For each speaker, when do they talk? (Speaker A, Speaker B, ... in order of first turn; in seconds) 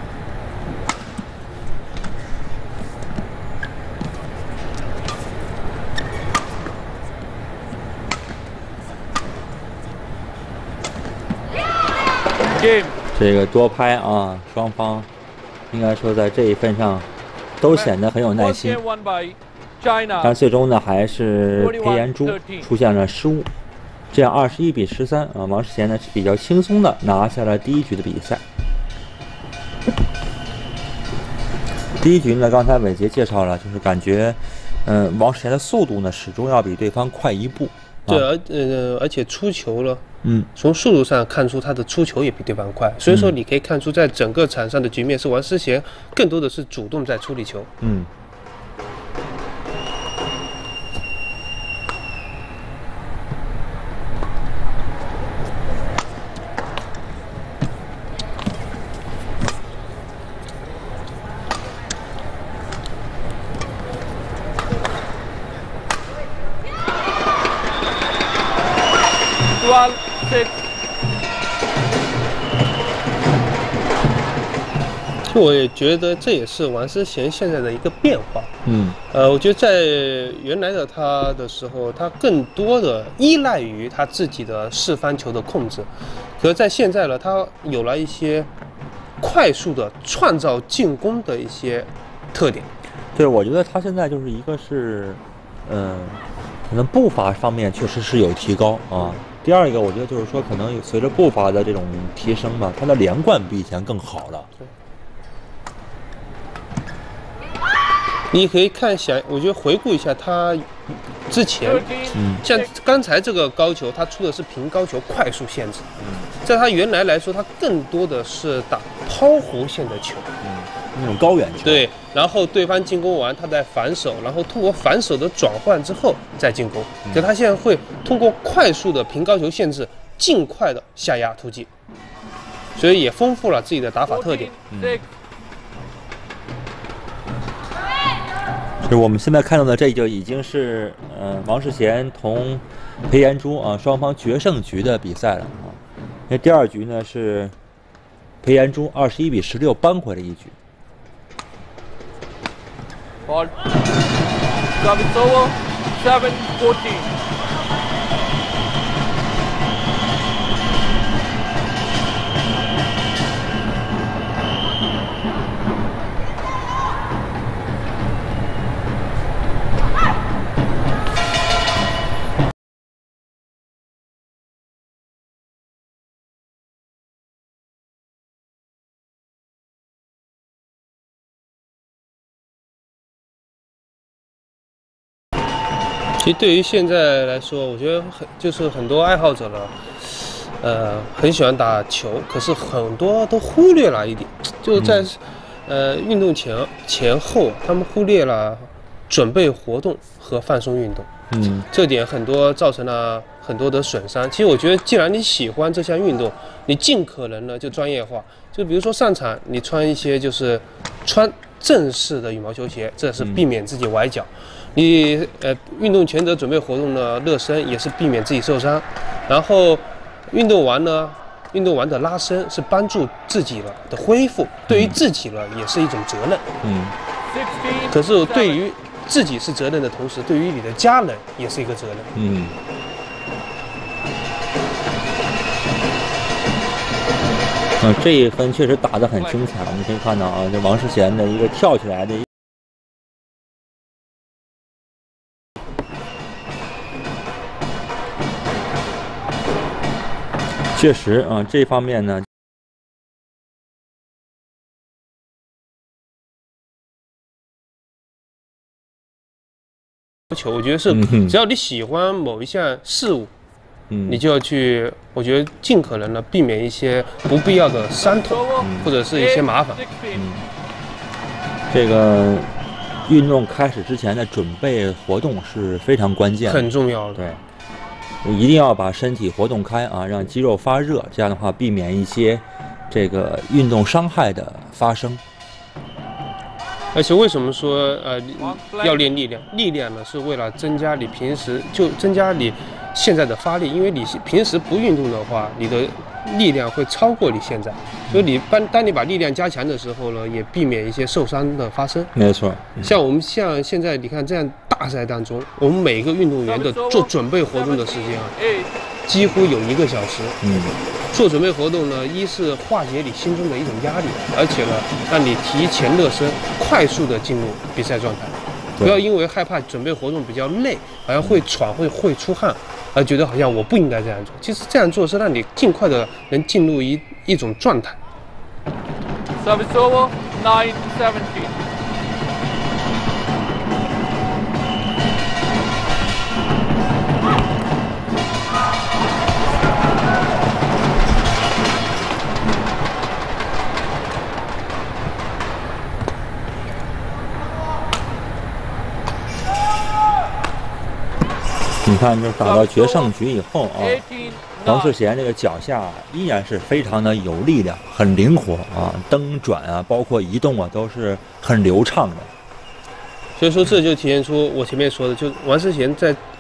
Speaker A: 12.5-12.9, 17.6-20.4, 21.6-22.7, 69.5-70.5, 111.6-112.7, 134.1-135.0, 153.3-153.5, 154.8-157.1, 227.3-228.6, 239.2-239.6, 268.2-270.3, 288.4-289.1, 306.5-308.7, 329.4-331.6, 352.4-353.1, 353.8-355.0
Speaker B: 13.1-15.1, 15.7-17.1, 17.6-18.8, 20.2-23.5, 24.1-28.4, 32.0-38.3, 40.2-40.5, 43.1-43.4, 47.8-48.1, 78.7-79.0, 93.2-104.5, 112.2-112.4, 116.0-116.3, 120.4-121.9, 134.7-135.0, 138.8-147.6, 148.4-150.6, 194.8-195.1, 201.3-201.7, 224.7-225.0, 226.6-226.9, 232.2-232.6, 237.8-242.3, 250.7-252.3, 260.9-261.4, 263.9-264.2, 268.6-268.9, 270.1-270.4, 271.7-272.5, 273.1-277.4, 278.2-285.2, 302.1-302.9, 310.4-310.8, 318.8-319.0, 351.8-354.0, 354.6-362.3
Speaker C: 38.1-40.0, 40.5-47.7, 75.3-88.5, 89.2-92.7, 108.3-115.9, 116.4-120.3, 121.6-131.7, 132.8-134.5, 186.2-201.1, 201.7-226.5, 227.9-232.1, 260.3-263.3, 264.1-269.8, 276.5-277.2, 286.9-302.1, 302.8-308.3, 309.1-310.4, 311.1-328.0, 363.4-366.2